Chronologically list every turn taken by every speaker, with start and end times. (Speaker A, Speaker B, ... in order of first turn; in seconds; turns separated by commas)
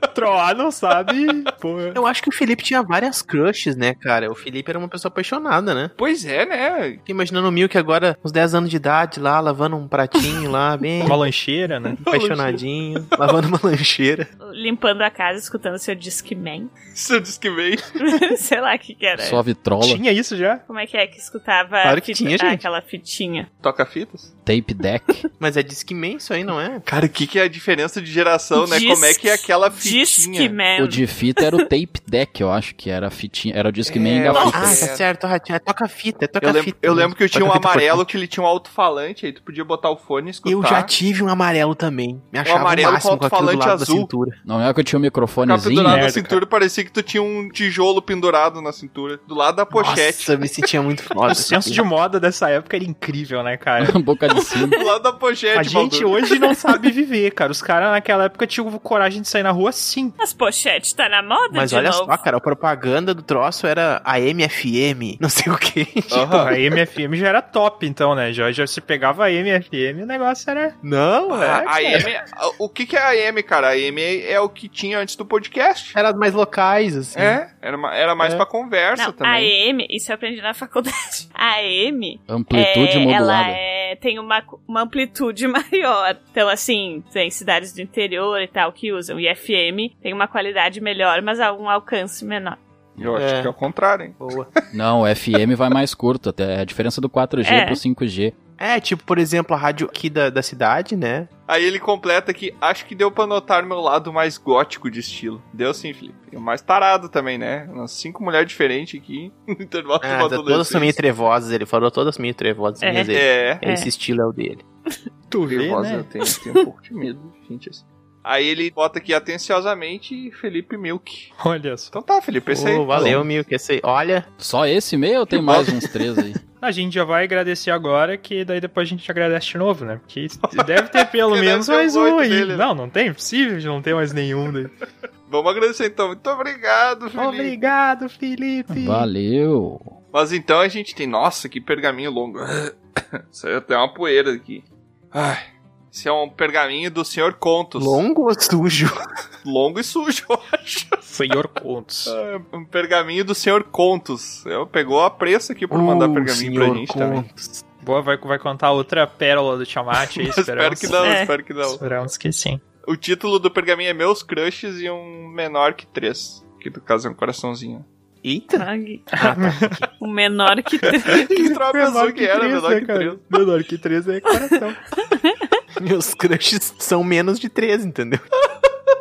Speaker A: 0.1-2.0, Speaker B: 1.9-5.9, Speaker C: 6.0-7.0, Speaker B: 7.0-11.2, Speaker A: 11.0-12.0, Speaker B: 12.0-14.3, Speaker C: 12.0-12.6, Speaker D: 14.4-16.7, Speaker C: 16.9-17.9, Speaker D: 18.0-19.4, Speaker E: 19.2-20.0, Speaker A: 19.8-20.6, Speaker D: 20.7-23.5, Speaker B: 21.8-22.6, Speaker C: 23.6-24.3, Speaker E: 24.4-25.2, Speaker B: 25.4-26.8, Speaker C: 26.9-30.6, Speaker D: 28.5-31.6, Speaker E: 30.8-34.8, Speaker C: 33.9-35.0, Speaker B: 34.4-38.1, Speaker C: 36.4-40.9, Speaker B: 40.4-44.4, Speaker C: 42.4-44.1, Speaker E: 44.4-46.1, Speaker C: 45.4-50.3, Speaker A: 45.9-46.4, Speaker B: 49.7-51.8, Speaker A: 51.3-54.0, Speaker E: 53.8-54.8, Speaker D: 54.5-54.8, Speaker C: 54.8-56.1, Speaker A: 55.5-60.1, Speaker D: 60.2-62.2, Speaker B: 61.5-66.5, Speaker C: 66.1-66.5, Speaker A: 66.2-70.8, Speaker B: 70.8-72.1, Speaker C: 71.3-76.0, Speaker B: 75.9-77.4, Speaker C: 77.1-79.5, Speaker B: 78.2-78.4, Speaker D: 79.0-92.6, Speaker E: 82.3-83.6, Speaker C: 93.0-94.2, Speaker B: 93.1-93.5, Speaker B: 94.2-94.5, Speaker E: 94.7-98.3, Speaker D: 97.4-97.8, Speaker B: 98.6-101.3, Speaker C: 101.5-111.0, Speaker B: 110.0-114.6, Speaker D: 112.8-113.9, Speaker C: 113.1-113.6, Speaker A: 115.3-116.0, Speaker C: 115.5-121.3, Speaker A: 121.4-121.9, Speaker C: 121.9-123.2, Speaker B: 122.5-124.3, Speaker E: 123.0-123.2, Speaker E: 124.4-126.4, Speaker C: 125.5-125.7, Speaker A: 126.6-134.7, Speaker C: 130.5-132.7, Speaker C: 135.3-137.6, Speaker A: 137.2-139.1, Speaker E: 138.7-139.9, Speaker C: 140.1-148.0, Speaker B: 147.8-148.9, Speaker C: 149.4-151.0, Speaker A: 151.1-152.1, Speaker C: 152.1-157.2, Speaker B: 155.7-157.6, Speaker A: 157.8-161.0, Speaker C: 160.1-161.8, Speaker D: 161.0-161.3, Speaker A: 161.6-162.6, Speaker C: 162.8-167.8, Speaker B: 168.2-169.9, Speaker D: 168.6-169.1, Speaker A: 169.2-169.8, Speaker D: 170.0-171.3, Speaker C: 171.2-173.2, Speaker A: 171.3-174.8, Speaker D: 175.1-175.4, Speaker B: 175.8-178.2